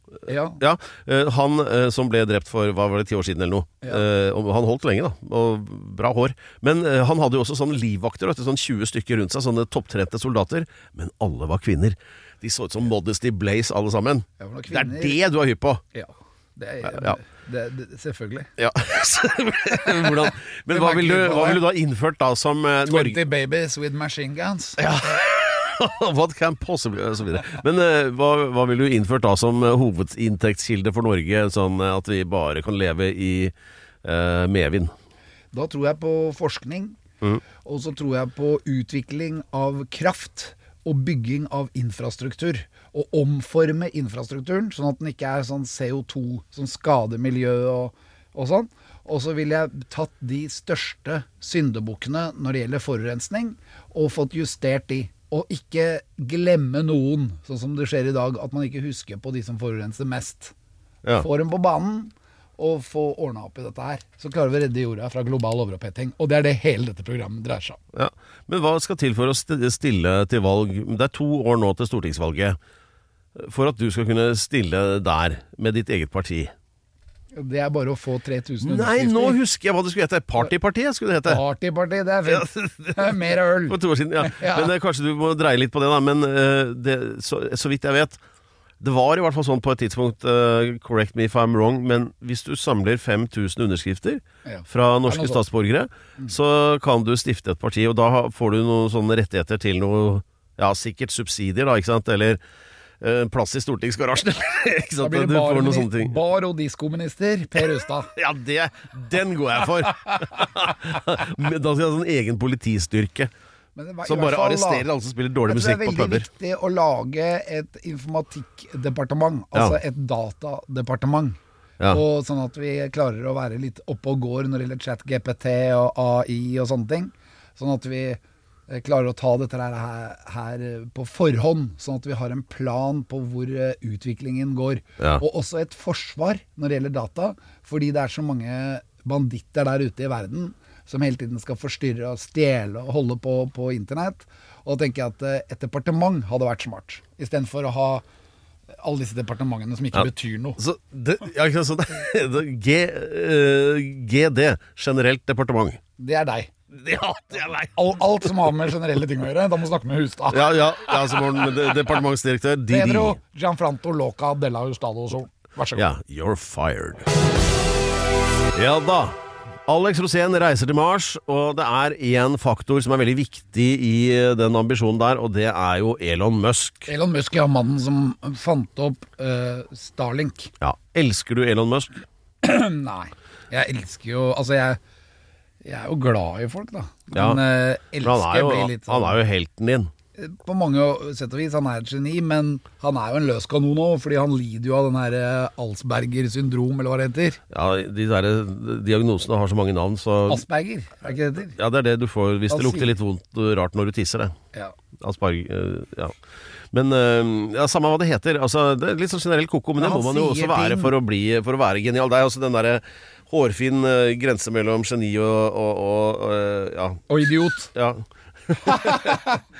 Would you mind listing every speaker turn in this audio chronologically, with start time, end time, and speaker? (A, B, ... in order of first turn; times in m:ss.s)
0:00.3-0:00.6 A
0:00.6-0:15.8 B
0:14.4-0:15.2 A
0:15.9-0:18.5 A
0:16.8-0:17.2 B
0:18.6-0:23.2 B
0:20.0-0:21.6 A
0:22.8-0:24.8 A
0:24.8-0:34.9 B
0:35.5-0:37.0 A
0:37.6-1:00.5 A
1:01.2-1:07.8 A
1:07.9-1:12.6 B
1:13.3-1:16.5 B
1:17.3-1:19.4 A
1:18.6-1:21.4 B
1:21.2-1:24.7 A
1:22.3-1:28.2 B
1:28.8-1:42.4 B
1:34.4-1:35.4 A
1:43.0-1:46.2 B
1:45.0-1:48.1 A
1:48.1-1:53.3 B
1:53.8-1:54.9 A
1:54.0-1:56.3 B
1:55.4-2:01.4 A
2:01.9-2:28.0 A
2:28.8-2:30.6 A
2:30.6-2:35.8 B
2:36.0-2:36.5 A
2:36.7-2:37.7 B
2:37.6-2:40.9 A
2:40.3-2:43.2 B
2:42.7-2:45.9 A
2:45.8-2:47.1 B
2:48.5-2:56.9 B
2:56.9-3:00.5 A
3:00.6-3:01.9 B
3:02.4-3:04.8 A
3:05.6-3:09.2 A
3:07.1-3:07.4 B
3:08.0-3:09.9 B
3:10.2-3:17.4 A
3:17.5-3:20.4 B
3:20.3-3:21.6 A
3:21.5-3:24.4 B
3:22.5-3:22.9 A
3:25.0-3:26.2 B
3:26.7-3:39.2 B
3:29.8-3:30.9 A
3:37.1-3:37.7 A
3:38.6-3:39.4 A